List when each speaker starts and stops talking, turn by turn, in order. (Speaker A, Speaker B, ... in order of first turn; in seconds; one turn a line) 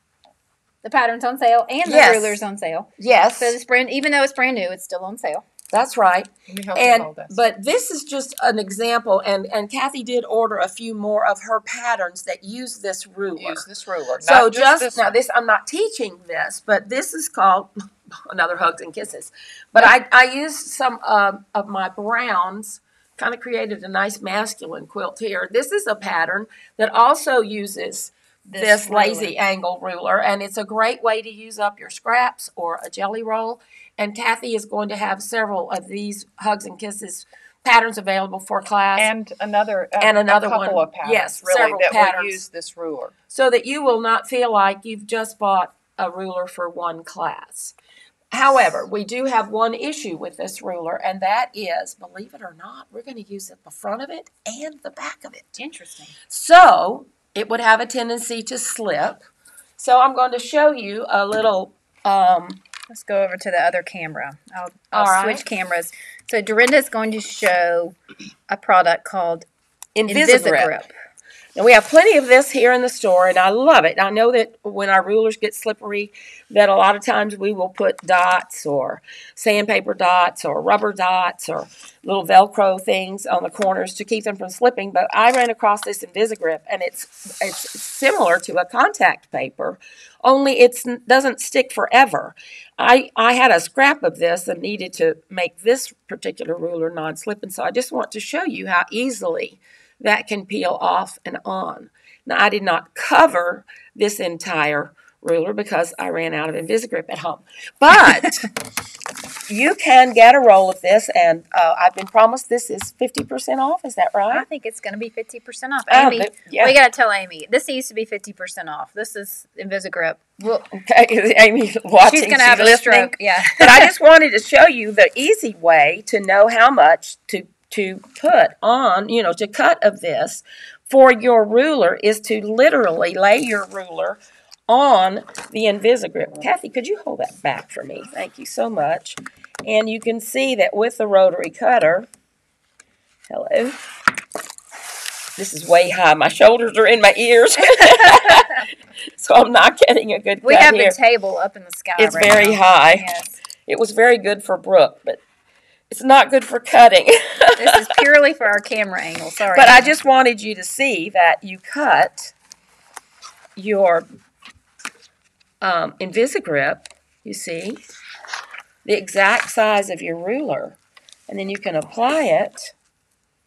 Speaker A: 0.8-5.5
Speaker B: 1.9-2.4
Speaker B: 3.0-3.6
Speaker B: 5.7-13.7
Speaker C: 6.5-7.4
Speaker C: 13.3-15.2
Speaker B: 14.2-17.7
Speaker B: 18.2-39.1
Speaker A: 28.5-29.3
Speaker C: 39.0-43.1
Speaker B: 40.0-42.4
Speaker B: 43.3-47.7
Speaker B: 48.3-55.6
Speaker A: 55.6-56.1
Speaker B: 56.3-59.2
Speaker B: 59.8-62.6
Speaker A: 62.9-68.0
Speaker B: 64.9-65.4
Speaker A: 68.5-69.5
Speaker B: 70.0-70.8
Speaker A: 70.1-70.9
Speaker B: 71.6-108.5
Speaker B: 109.5-114.5
Speaker A: 114.3-120.7
Speaker B: 115.9-116.8
Speaker B: 120.7-142.1
Speaker A: 122.0-123.9
Speaker B: 143.3-143.9
Speaker B: 145.4-151.0
Speaker A: 147.8-148.5
Speaker A: 150.4-153.4
Speaker B: 152.0-153.1
Speaker B: 153.7-155.2
Speaker B: 155.9-158.0
Speaker A: 157.6-159.9
Speaker B: 159.5-162.3
Speaker B: 163.6-164.1
Speaker B: 165.6-167.8
Speaker B: 168.8-172.7